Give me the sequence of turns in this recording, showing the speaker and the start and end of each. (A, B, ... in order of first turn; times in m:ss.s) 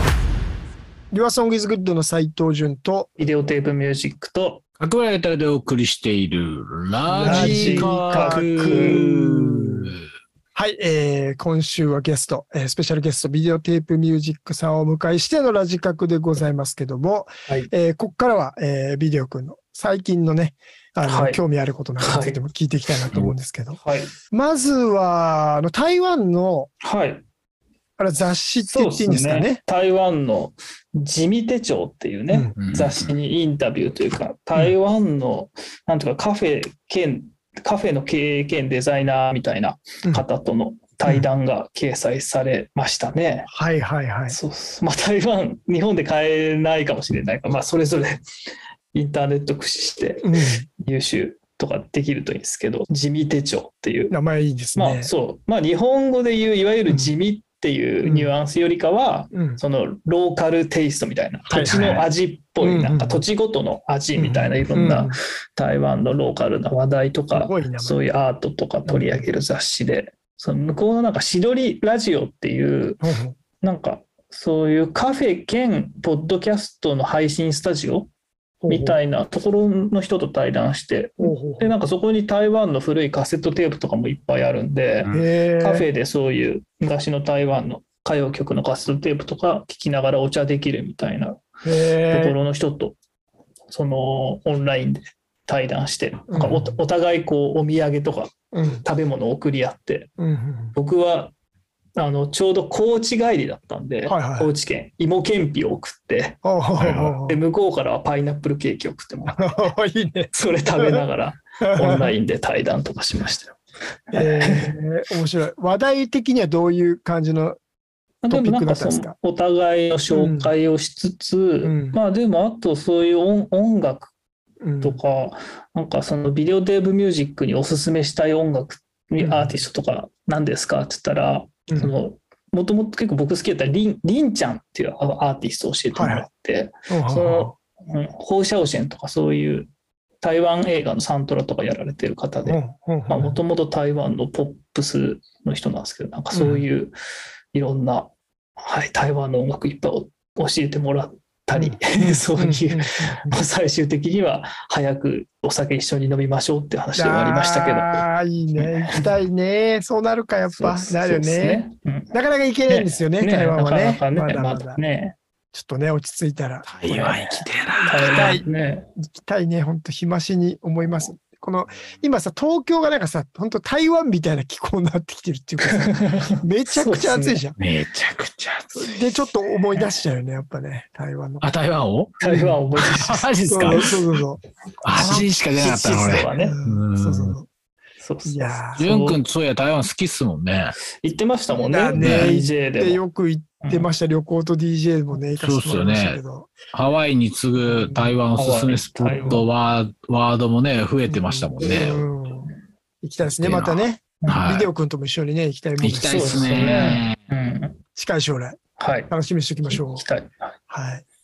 0:01.1-0:03.1 A
0:03.2-0:04.6 B
0:04.8-0:09.9 C
0:07.1-0:09.0 B
0:07.2-0:09.9 A
0:10.5-0:26.7 A
0:21.0-0:21.4 B
0:22.0-0:22.4 B
0:23.8-0:24.1 B
0:26.8-0:27.2 B
0:28.0-0:29.6 A
0:28.6-0:43.5 B
0:32.3-0:32.5 A
0:32.6-0:33.1 C
0:43.5-0:44.4 A
0:44.3-0:48.2 B
0:48.9-0:54.1 B
0:50.2-0:50.7 A
0:54.1-0:55.1 A
0:54.8-1:13.0 B
0:58.0-0:58.3 A
0:59.3-0:59.6 A
1:01.5-1:02.1 A
1:02.6-1:03.2 A
1:04.2-1:05.2 A
1:07.3-1:08.0 A
1:08.9-1:09.3 A
1:13.0-1:13.4 A
1:13.6-1:18.1 B
1:18.6-1:19.0 A
1:18.7-1:31.4 B
1:21.2-1:21.7 A
1:25.1-1:25.9 A
1:31.6-1:32.4 A
1:32.1-1:33.0 B
1:33.7-1:40.1 B
1:36.3-1:36.8 A
1:38.5-1:38.8 A
1:40.2-1:40.8 A
1:40.8-1:41.3 B
1:42.0-1:46.4 B
1:44.0-1:44.5 A
1:46.4-1:47.4 A
1:46.8-1:47.1 C
1:47.2-1:49.6 B
1:49.3-1:51.0 A
1:50.3-1:53.6 B
1:51.6-1:52.1 A
1:54.1-1:54.8 B
1:54.1-1:57.6 A
1:58.2-2:04.1 B
1:58.3-1:59.1 A
2:00.1-2:00.5 A
2:01.6-2:02.0 A
2:04.6-2:05.0 A
2:04.8-2:19.7 B
2:09.2-2:09.6 A
2:11.7-2:11.9 A
2:15.9-2:16.3 A
2:16.9-2:17.5 A
2:20.2-2:26.9 B
2:22.4-2:23.4 A
2:26.3-2:26.6 A
2:27.5-2:38.0 B
2:31.5-2:33.4 A
2:36.9-2:44.8 A
2:38.6-2:39.0 B
2:40.5-2:42.1 B
2:42.7-2:45.2 B
2:45.5-2:46.8 A
2:46.7-2:48.4 C
2:46.8-2:48.9 B
2:48.0-2:48.5 A
2:49.0-2:57.6 A
2:55.6-2:57.4 B
2:57.6-2:58.9 C
2:58.7-3:01.5 A
3:01.4-3:02.2 C
3:02.2-3:03.9 B
3:02.2-3:02.6 A
3:02.8-3:04.0 C
3:03.5-3:05.3 A
3:04.8-3:07.4 C
3:05.0-3:06.6 B
3:06.4-3:07.5 A
3:08.0-3:09.2 B
3:08.2-3:08.8 A
3:08.8-3:10.8 C
3:11.0-3:13.0 B
3:11.6-3:16.5 A
3:11.9-3:12.3 C
3:13.6-3:13.9 B
3:15.3-3:16.2 C
3:16.7-3:22.0 C
3:17.6-3:18.2 A
3:18.4-3:19.4 B
3:21.1-3:22.5 A
3:23.0-3:27.0 A
3:23.4-3:24.7 C
3:25.8-3:27.2 C
3:26.1-3:27.8 B
3:28.0-3:28.6 A
3:28.8-3:29.1 B
3:29.1-3:30.0 A
3:29.7-3:30.5 B
3:30.7-3:31.0 A